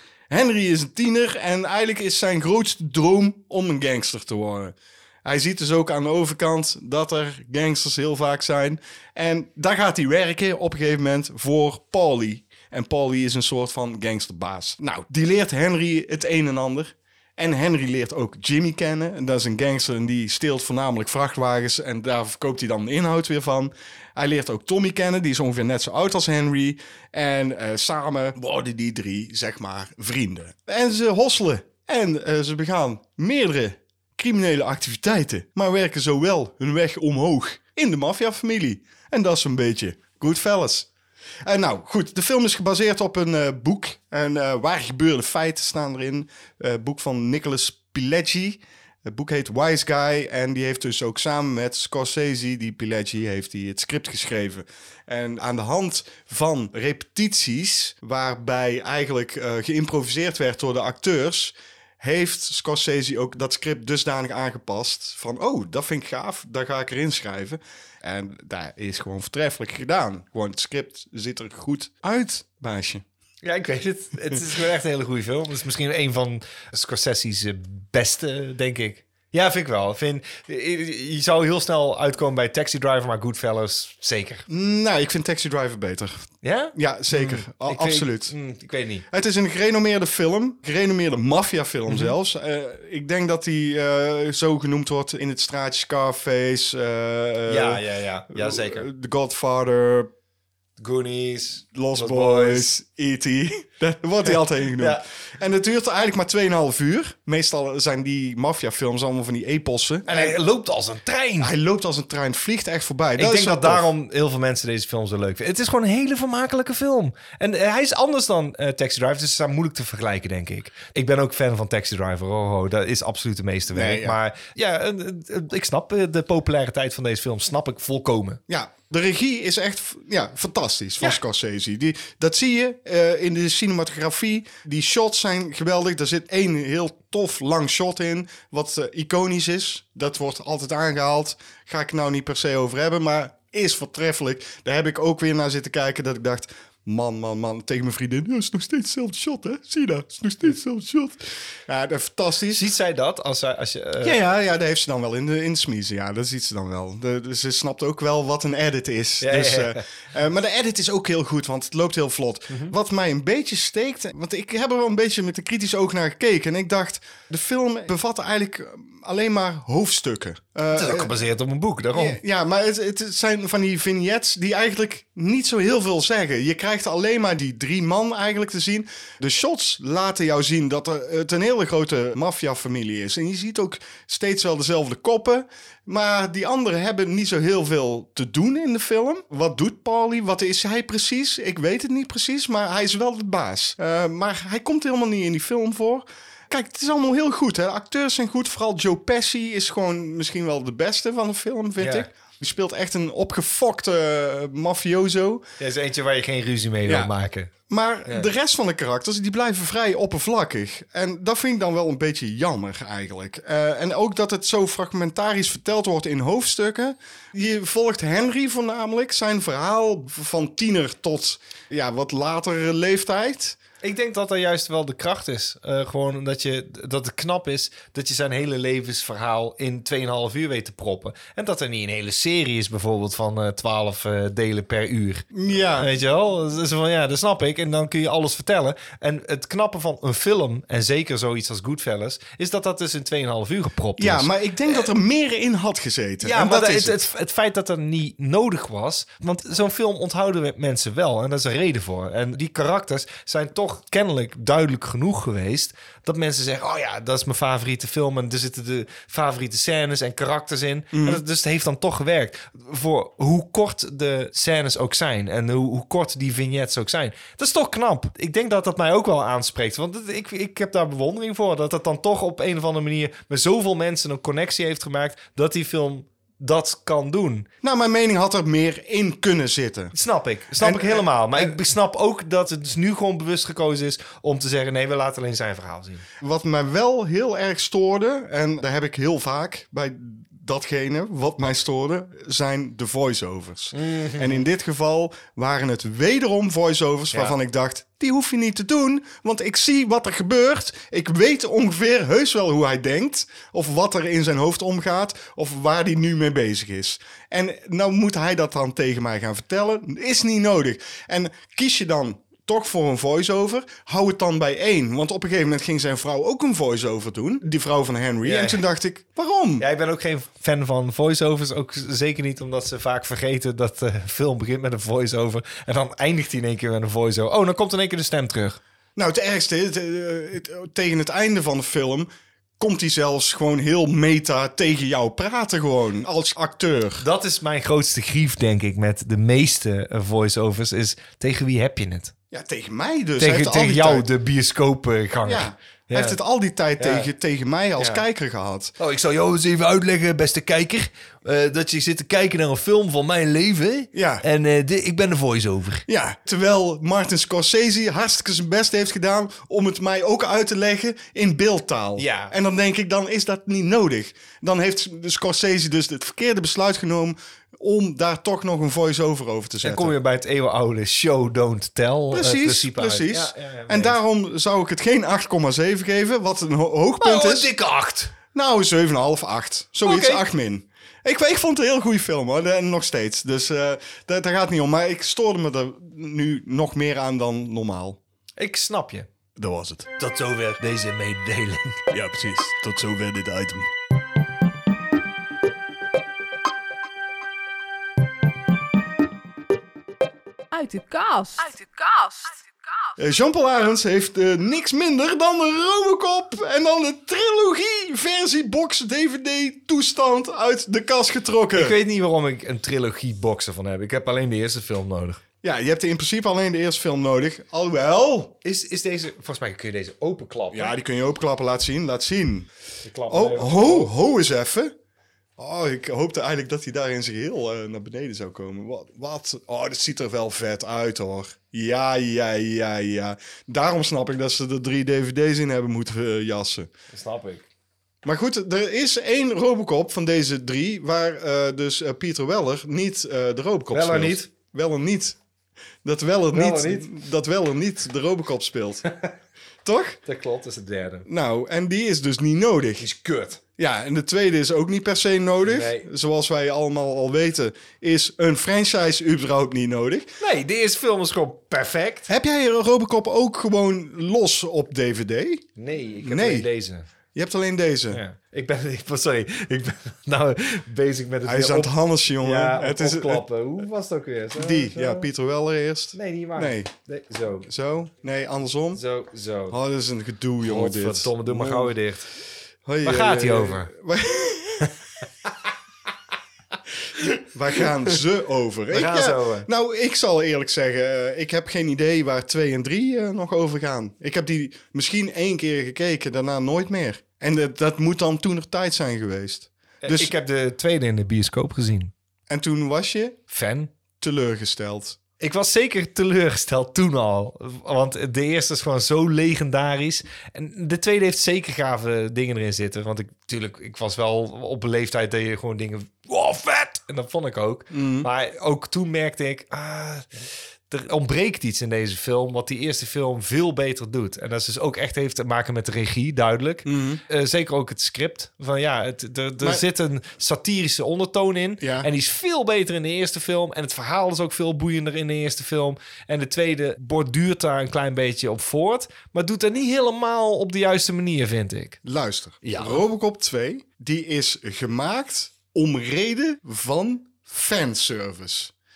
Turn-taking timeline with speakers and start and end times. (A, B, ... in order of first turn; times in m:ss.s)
0:00.3-0:40.9 A
0:41.4-1:13.0 A
1:13.4-1:24.4 B
1:24.5-1:28.3 A
1:26.4-1:29.0 B
1:29.1-1:40.1 A
1:31.9-1:32.1 B
1:37.5-1:38.8 B
1:40.8-1:42.7 B
1:41.7-1:50.4 A
1:44.2-1:45.0 B
1:50.0-1:51.5 B
1:51.4-1:53.9 A
1:53.2-2:08.4 B
2:03.7-2:04.2 A
2:08.5-2:32.7 A
2:32.5-2:34.2 B
2:34.0-2:51.1 A
2:39.2-2:39.8 B
2:50.7-2:52.2 B
2:51.9-3:25.4 A
3:21.8-3:22.1 B
3:25.6-3:27.5 B
3:26.8-3:27.1 A
3:27.7-3:43.6 A
3:43.8-4:04.9 B
3:55.3-3:55.9 A
4:04.0-4:07.0 A
4:06.2-4:37.5 B
4:20.9-4:21.2 A
4:37.6-4:39.9 A
4:39.9-4:46.0 B
4:40.6-4:41.5 A
4:46.2-5:19.6 A
4:53.7-4:54.4 B
5:18.2-5:18.6 B
5:19.6-5:28.6 B
5:29.0-5:37.0 A
5:37.0-5:42.1 B
5:42.3-5:44.1 A
5:43.2-5:46.2 B
5:45.2-5:48.7 A
5:46.8-5:47.1 B
5:47.8-5:48.0 B
5:48.8-5:55.8 B
5:53.9-5:54.2 A
5:55.9-6:09.9 A
6:02.0-6:02.3 B
6:09.6-6:14.0 B
6:12.1-6:17.5 A
6:17.0-6:18.1 B
6:18.3-6:28.0 A
6:19.8-6:20.2 B
6:28.4-6:29.1 B
6:29.4-6:29.9 A
6:30.0-6:31.8 B
6:31.9-6:33.7 A
6:40.5-6:42.5 C
6:43.0-6:51.8 A
6:51.5-6:55.2 B
6:55.4-6:58.4 A
6:58.4-7:00.7 B
7:00.5-7:02.5 A
7:02.8-7:03.9 B
7:03.1-7:04.7 A
7:05.4-7:16.7 A
7:16.9-7:17.4 B
7:18.0-7:25.2 A
7:23.7-7:24.3 B
7:25.8-7:28.8 A
7:26.3-7:26.9 B
7:28.8-7:29.1 B
7:29.6-7:30.0 A
7:30.0-7:31.0 B
7:31.0-7:32.8 A
7:32.8-7:33.4 B
7:33.6-7:40.2 A
7:35.4-7:35.8 B
7:40.2-7:42.1 B
7:42.1-7:45.4 A
7:45.6-7:46.9 B
7:46.0-7:46.5 A
7:47.1-7:48.0 A
7:47.9-7:55.1 B
7:51.2-7:53.2 A
7:54.4-7:56.7 A
7:55.9-7:57.5 B
7:57.4-7:58.8 A
7:58.7-7:59.6 B
7:59.5-8:01.8 A
8:00.4-8:02.1 B
8:02.6-8:04.7 A
8:02.8-8:03.7 B
8:07.0-8:07.6 B
8:07.2-8:20.1 A
8:08.7-8:09.5 B
8:19.8-8:21.9 B
8:22.3-8:23.2 A
8:23.3-8:23.7 B
8:24.0-8:25.0 A
8:25.2-9:01.8 B
8:37.7-8:38.1 A
8:46.6-8:47.0 A
8:51.6-8:51.9 A
9:01.8-9:08.5 A
9:02.4-9:02.8 B